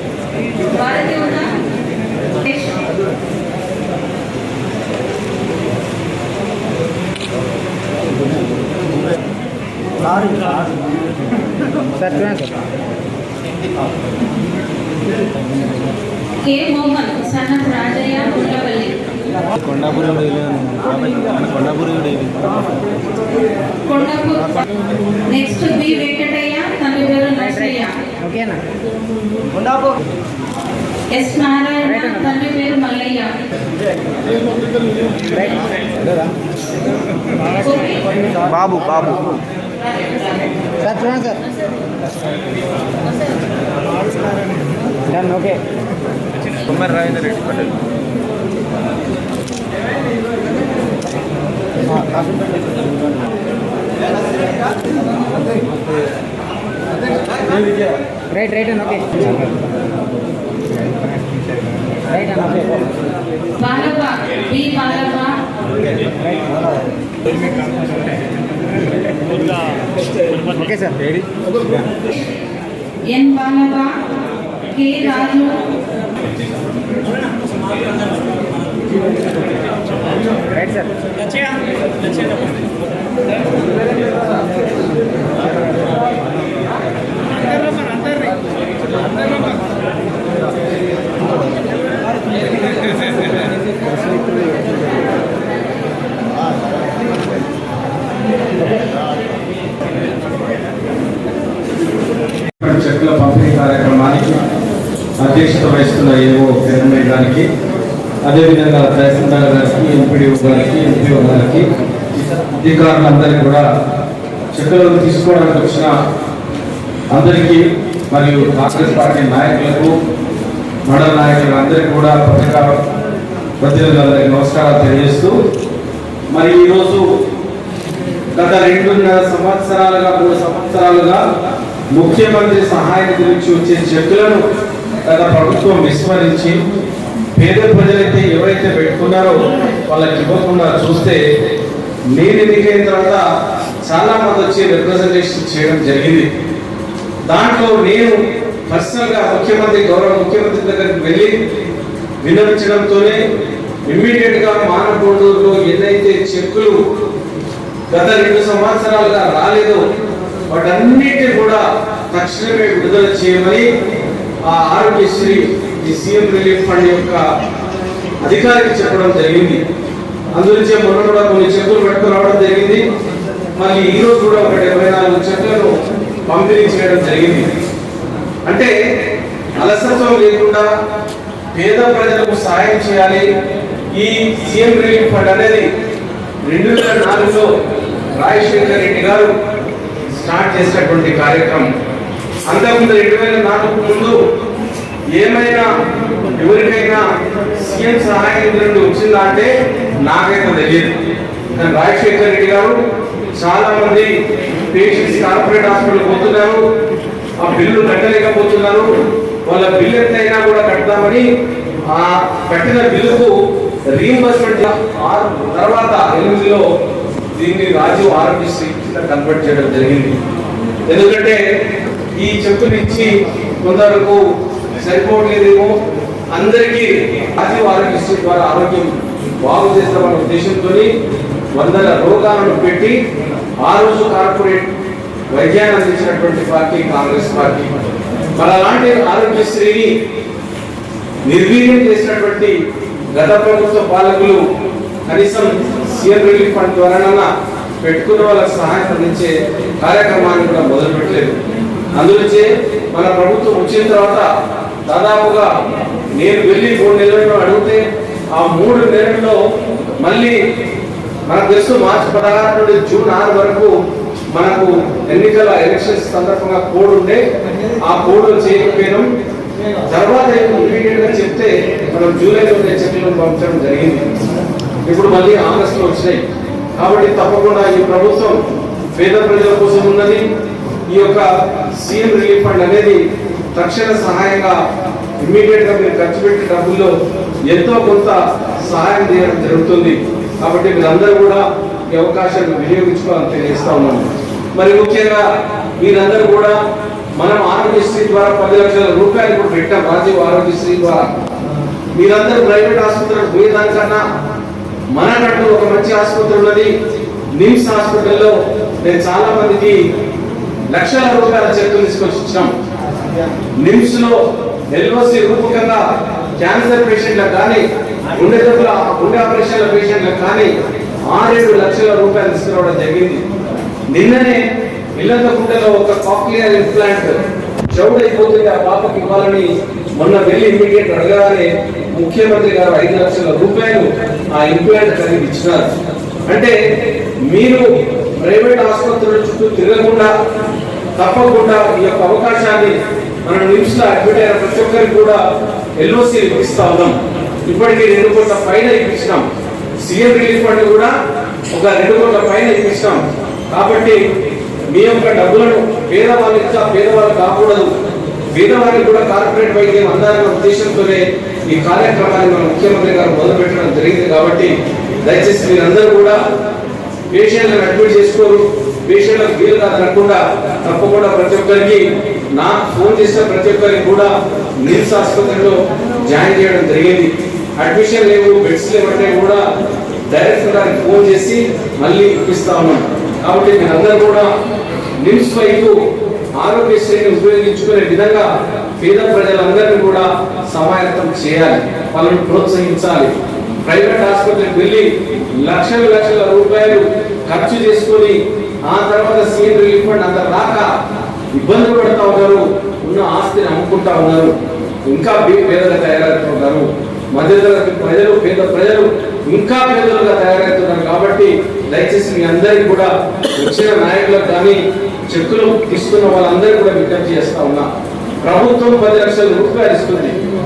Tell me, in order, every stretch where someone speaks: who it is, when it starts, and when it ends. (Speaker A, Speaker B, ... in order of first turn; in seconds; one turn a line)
Speaker A: 0.6-1.6
Speaker A: 2.3-3.0
Speaker B: 12.0-12.6
Speaker A: 16.4-19.0
Speaker C: 19.8-22.6
Speaker A: 23.8-24.6
Speaker A: 25.3-28.1
Speaker B: 28.2-28.6
Speaker A: 31.1-33.3
Speaker B: 35.1-36.3
Speaker A: 37.5-38.1
Speaker C: 38.7-39.2
Speaker A: 39.8-40.5
Speaker B: 40.8-41.4
Speaker B: 45.1-45.6
Speaker C: 46.8-47.6
Speaker D: 47.0-47.4
Speaker B: 58.3-59.5
Speaker B: 60.9-61.4
Speaker B: 61.9-62.8
Speaker A: 63.5-65.4
Speaker B: 70.4-71.8
Speaker A: 73.0-74.0
Speaker A: 74.7-75.6
Speaker B: 80.5-80.9
Speaker D: 102.6-104.4
Speaker D: 105.2-107.5
Speaker D: 108.2-113.7
Speaker D: 114.5-115.9
Speaker D: 117.1-119.9
Speaker D: 120.9-122.8
Speaker D: 123.6-125.3
Speaker D: 126.3-127.0
Speaker D: 128.4-131.2
Speaker D: 131.9-134.4
Speaker D: 135.0-136.6
Speaker D: 137.3-141.2
Speaker D: 142.1-143.2
Speaker D: 143.8-146.3
Speaker D: 147.3-148.1
Speaker D: 148.7-151.3
Speaker D: 152.2-153.2
Speaker D: 153.9-156.8
Speaker D: 157.9-159.8
Speaker D: 160.5-163.6
Speaker D: 164.5-167.2
Speaker D: 168.2-169.6
Speaker D: 170.3-172.8
Speaker D: 173.6-175.7
Speaker D: 176.3-177.4
Speaker D: 178.4-178.7
Speaker D: 179.6-180.7
Speaker D: 181.5-183.3
Speaker D: 183.9-185.7
Speaker D: 186.5-187.5
Speaker D: 188.2-189.3
Speaker D: 190.1-191.7
Speaker D: 192.5-194.2
Speaker D: 195.1-195.7
Speaker D: 196.3-199.5
Speaker D: 200.0-201.0
Speaker D: 201.5-202.7
Speaker D: 203.4-204.1
Speaker D: 204.7-206.6
Speaker D: 207.4-208.9
Speaker D: 209.5-211.3
Speaker D: 211.9-213.3
Speaker D: 213.9-216.6
Speaker D: 217.3-220.2
Speaker D: 220.9-221.4
Speaker D: 222.2-224.2
Speaker D: 224.7-225.7
Speaker D: 226.3-230.9
Speaker D: 231.5-233.0
Speaker D: 233.6-234.7
Speaker D: 235.3-237.7
Speaker D: 238.4-239.9
Speaker D: 241.2-242.5
Speaker D: 243.1-244.4
Speaker D: 245.1-247.3
Speaker D: 247.8-251.4
Speaker D: 251.9-254.3
Speaker D: 254.9-255.5
Speaker D: 256.1-257.8
Speaker D: 258.3-259.4
Speaker D: 260.0-260.4
Speaker D: 261.3-263.7
Speaker D: 264.3-267.2
Speaker D: 267.8-269.1
Speaker D: 269.9-274.0
Speaker D: 274.9-276.2
Speaker D: 276.8-278.4
Speaker D: 278.9-280.2
Speaker D: 280.9-283.0
Speaker D: 283.5-284.6
Speaker D: 285.2-286.9
Speaker D: 287.5-295.2
Speaker D: 295.8-296.6
Speaker D: 297.2-301.2
Speaker D: 301.9-304.0
Speaker D: 304.9-306.7
Speaker D: 307.4-309.8
Speaker D: 310.7-312.5
Speaker D: 313.6-314.2
Speaker D: 314.7-315.8
Speaker D: 316.4-320.5
Speaker D: 321.1-323.2
Speaker D: 323.9-327.2
Speaker D: 327.7-329.5
Speaker D: 330.0-335.7
Speaker D: 336.3-336.5
Speaker D: 337.3-340.1
Speaker D: 341.0-345.2
Speaker D: 345.8-349.2
Speaker D: 349.8-350.9
Speaker D: 351.5-354.0
Speaker D: 354.7-357.7
Speaker D: 358.3-366.2
Speaker D: 367.1-371.8
Speaker D: 372.3-379.4
Speaker D: 380.1-384.3
Speaker D: 385.0-385.7
Speaker D: 386.4-393.1
Speaker D: 393.6-394.9
Speaker D: 395.4-398.1
Speaker D: 398.7-400.7
Speaker D: 401.3-404.3
Speaker D: 404.9-417.7
Speaker D: 418.2-420.2